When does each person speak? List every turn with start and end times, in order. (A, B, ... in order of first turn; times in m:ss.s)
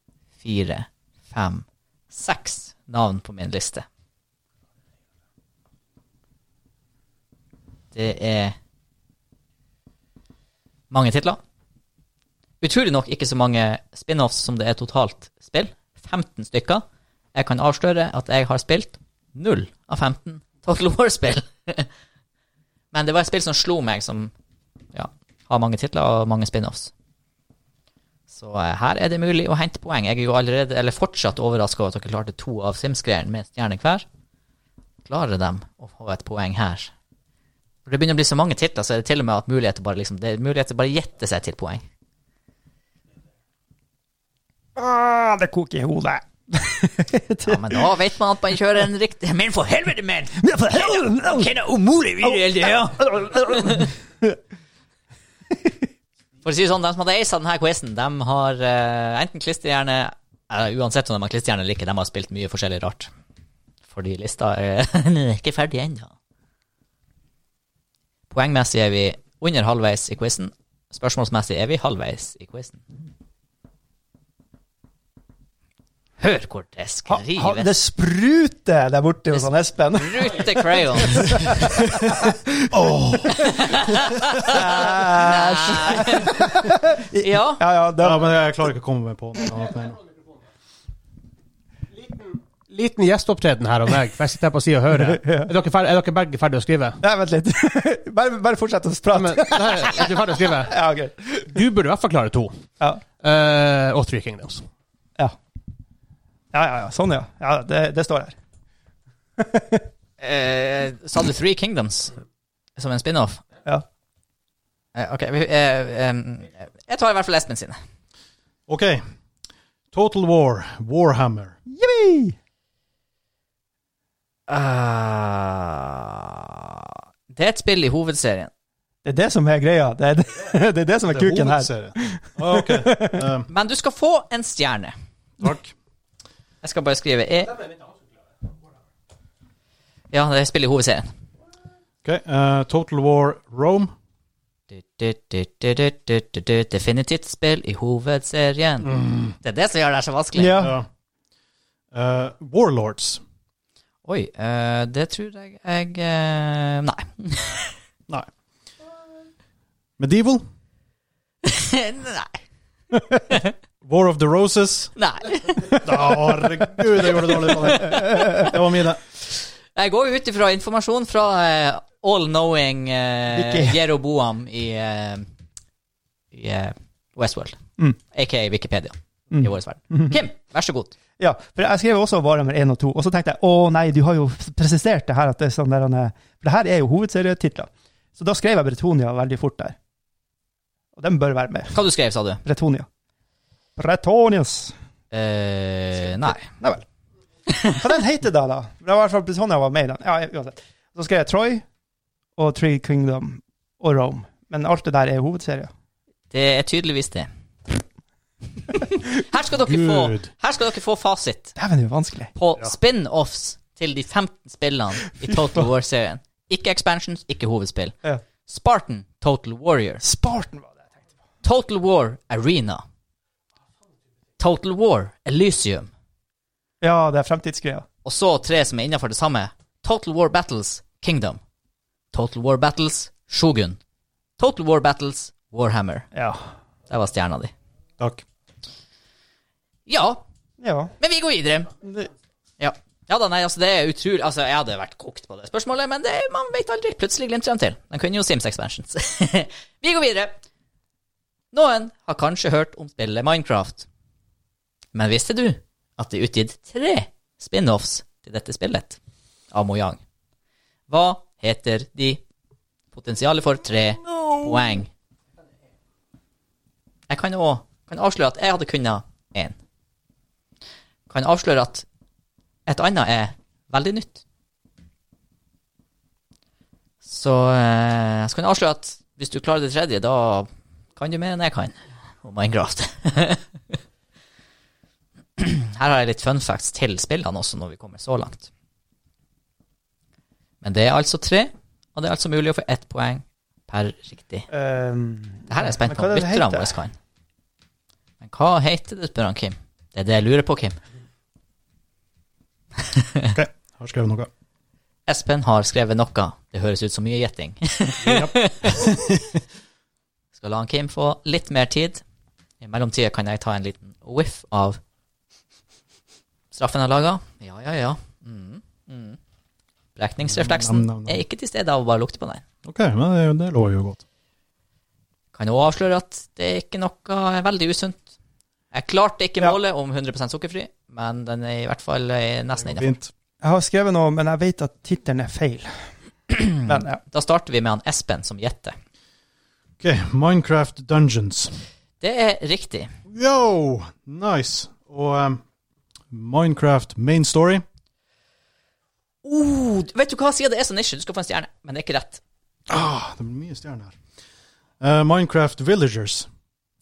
0:00.4-0:03.8 A
0:07.9-0:08.6 A
0:10.9-0:11.4 A
0:12.6-0:21.9 A
0:22.9-0:24.3 A
0:24.9-0:26.9 A
0:28.3-0:34.0 A
0:35.0-0:36.9 A
0:37.8-0:41.8 A
0:44.8-0:47.9 B
0:47.4-0:53.9 A
0:50.4-0:51.5 B
0:52.2-0:54.4 B
0:56.4-1:03.1 A
1:03.9-1:06.1 A
1:08.3-1:12.8 A
1:16.2-1:17.7 A
1:17.1-1:22.6 B
1:19.3-1:21.5 A
1:22.7-1:24.2 C
1:23.4-1:26.4 A
1:24.4-1:28.3 B
1:27.2-1:27.6 A
1:28.0-1:30.0 C
1:32.0-1:37.0 D
1:35.0-1:35.5 B
1:37.0-1:41.5 B
1:39.1-1:40.7 D
1:41.5-1:42.5 D
1:43.2-1:44.6 D
1:46.5-1:48.3 B
1:49.4-1:49.9 B
1:50.2-1:52.2 A
1:52.8-1:53.4 A
1:54.9-1:57.8 A
1:58.7-1:59.0 C
1:59.9-2:01.6 C
2:01.7-2:02.4 B
2:04.5-2:08.5 A
2:09.0-2:13.2 B
2:11.1-2:13.5 C
2:13.5-2:14.9 A
2:15.4-2:15.7 C
2:16.6-2:17.6 A
2:20.1-2:21.1 A
2:22.0-2:23.9 C
2:24.7-2:30.7 A
2:28.8-2:29.4 C
2:30.4-2:30.7 B
2:30.5-2:30.8 C
2:31.9-2:33.2 C
2:34.0-2:37.7 A
2:40.0-2:40.4 C
2:41.4-2:42.4 A
2:43.8-2:44.9 C
2:45.0-2:45.8 A
2:45.8-2:49.0 C
2:47.9-2:48.4 B
2:47.9-2:48.5 A
2:49.7-2:55.3 A
2:53.3-2:53.8 B
2:56.3-2:57.6 A
2:58.1-3:00.9 A
2:59.3-3:00.2 B
3:01.2-3:09.8 B
3:11.0-3:11.7 B
3:11.7-3:12.4 A
3:12.4-3:12.9 B
3:13.8-3:14.7 B
3:15.1-3:16.5 A
3:16.4-3:16.8 B
3:17.5-3:17.8 A
3:17.7-3:21.6 B
3:22.4-3:25.7 B
3:26.3-3:27.3 A
3:28.7-3:31.5 A
3:29.6-3:30.3 C
3:31.6-3:32.3 B
3:32.4-3:37.9 A
3:38.4-3:40.0 A
3:40.0-3:41.0 B
3:41.4-3:42.8 A
3:44.4-3:45.9 A
3:46.8-3:47.8 B
3:48.0-3:51.4 A
3:52.1-3:53.8 A
3:54.4-3:56.1 A
3:56.1-3:56.5 B
3:56.9-3:57.5 A
3:59.9-4:00.2 A
4:00.6-4:00.9 B
4:01.0-4:01.8 A
4:02.6-4:10.4 A
4:11.5-4:13.9 A
4:14.9-4:19.0 A
4:19.5-4:20.0 A
4:20.9-4:22.2 A
4:22.9-4:24.9 A
4:27.1-4:29.6 A
4:31.1-4:31.8 A
4:32.6-4:34.2 A
4:37.0-4:43.4 A
4:45.4-4:48.5 A
4:50.6-4:54.5 A
4:54.5-4:56.8 B
4:55.5-4:56.9 A
4:58.2-5:00.8 A
5:02.9-5:03.3 A
5:03.3-5:04.3 C
5:05.1-5:08.7 A
5:08.0-5:09.3 C
5:10.4-5:12.0 A
5:12.6-5:14.8 A
5:16.5-5:19.2 A
5:20.0-5:22.4 A
5:20.3-5:21.2 C
5:22.6-5:24.0 C
5:25.3-5:28.1 A
5:28.7-5:32.9 A
5:32.6-5:33.1 C
5:33.4-5:35.7 B
5:36.4-5:38.8 A
5:36.6-5:37.0 B
5:39.8-5:41.5 C
5:42.0-5:42.9 A
5:43.1-5:45.4 C
5:46.1-5:47.6 C
5:49.2-5:52.2 A
5:52.7-5:54.0 C
5:54.8-5:56.3 C